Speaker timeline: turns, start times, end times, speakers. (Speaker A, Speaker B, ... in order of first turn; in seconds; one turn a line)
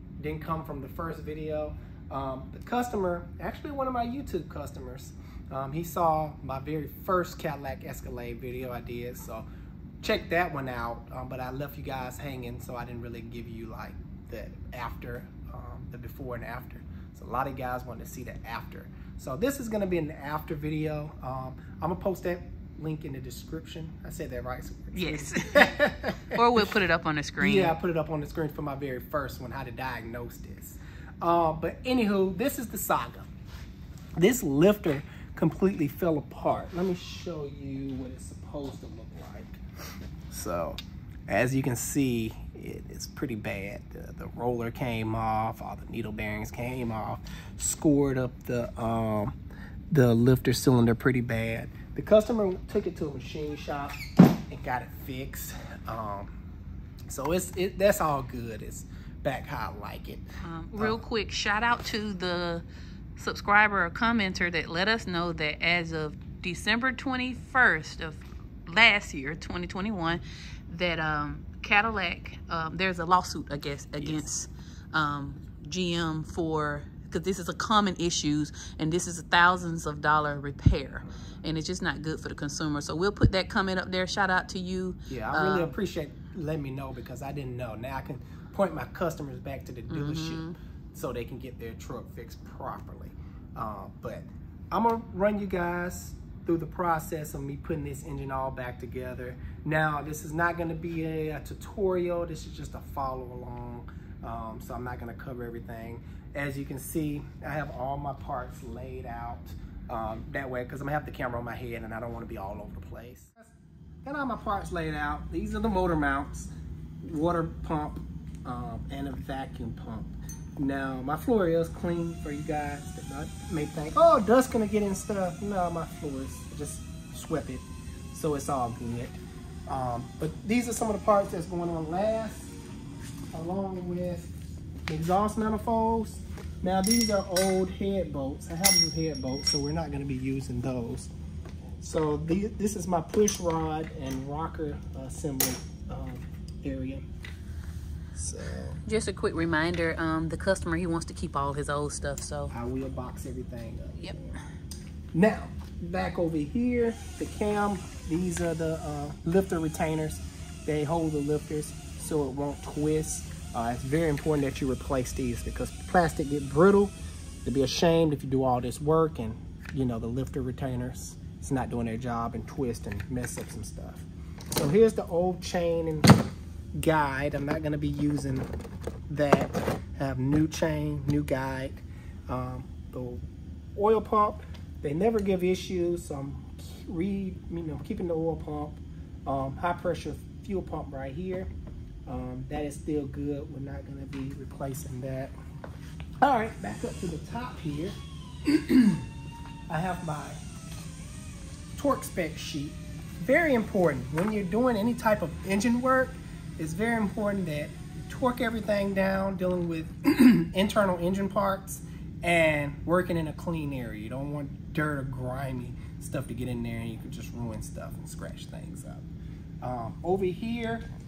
Speaker A: 0.2-9.5
Speaker A: 10.0-26.4
Speaker B: 24.9-27.8
Speaker A: 27.4-33.3
Speaker A: 34.2-39.6
Speaker A: 40.3-49.3
Speaker A: 49.9-56.3
Speaker A: 57.1-61.0
Speaker B: 60.4-62.6
Speaker B: 63.1-85.8
Speaker A: 85.1-116.5
Speaker B: 89.9-90.6
Speaker A: 117.0-132.5
Speaker A: 133.3-134.3
Speaker A: 134.9-141.1
Speaker A: 141.8-147.0
Speaker A: 148.1-148.8
Speaker B: 148.8-152.5
Speaker A: 152.5-154.3
Speaker A: 155.1-176.1
Speaker A: 176.7-178.5
Speaker A: 179.1-183.2
Speaker A: 183.7-191.5
Speaker A: 192.1-195.3
Speaker A: 196.2-199.1
Speaker A: 199.7-200.4
Speaker A: 201.8-219.0
Speaker A: 219.6-220.9